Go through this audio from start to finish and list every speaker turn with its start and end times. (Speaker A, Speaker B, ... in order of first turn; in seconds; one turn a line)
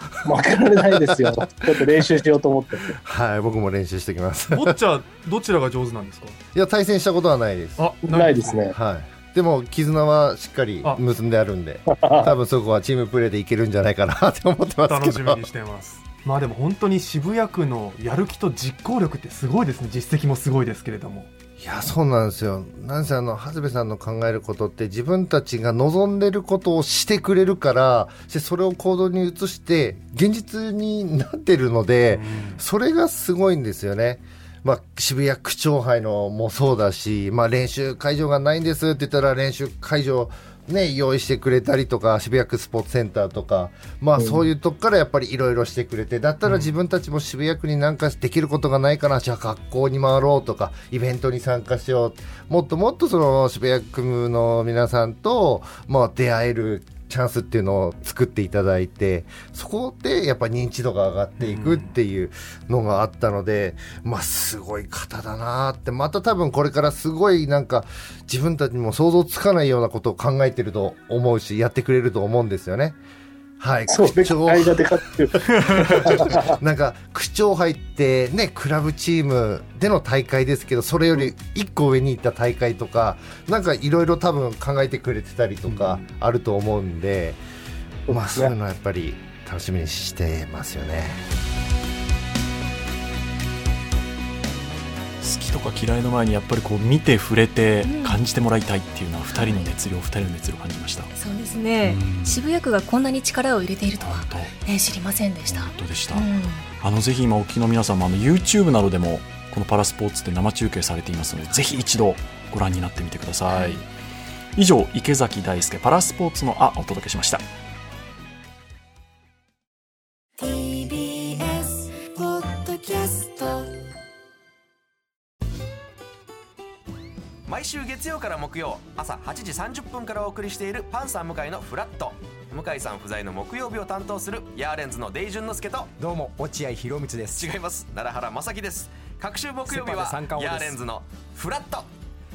Speaker A: 0.2-3.0
Speaker B: 1.0-1.4
Speaker B: 3.0-4.7
Speaker C: 4.5-6.4
Speaker B: 6.5-7.9
Speaker C: 7.8-8.5
Speaker A: 8.1-8.8
Speaker B: 8.7-15.4
Speaker A: 11.9-12.3
Speaker C: 14.8-21.3
Speaker B: 21.6-73.0
Speaker C: 32.1-32.6
Speaker A: 44.2-44.4
Speaker C: 46.5-46.7
Speaker C: 61.4-61.9
Speaker B: 73.6-74.8
Speaker A: 73.9-76.5
Speaker B: 75.5-87.4
Speaker D: 85.7-86.0
Speaker A: 88.1-88.5
Speaker B: 88.1-91.2
Speaker D: 95.2-101.1
Speaker E: 97.8-98.2
Speaker E: 99.3-99.7
Speaker E: 101.1-106.6
Speaker D: 101.8-102.5
Speaker D: 104.0-104.6
Speaker D: 105.4-113.8
Speaker E: 113.5-113.8
Speaker D: 114.5-117.4
Speaker E: 120.4-123.7
Speaker F: 127.5-135.9
Speaker G: 136.0-137.5
Speaker F: 137.3-141.9
Speaker G: 139.7-140.8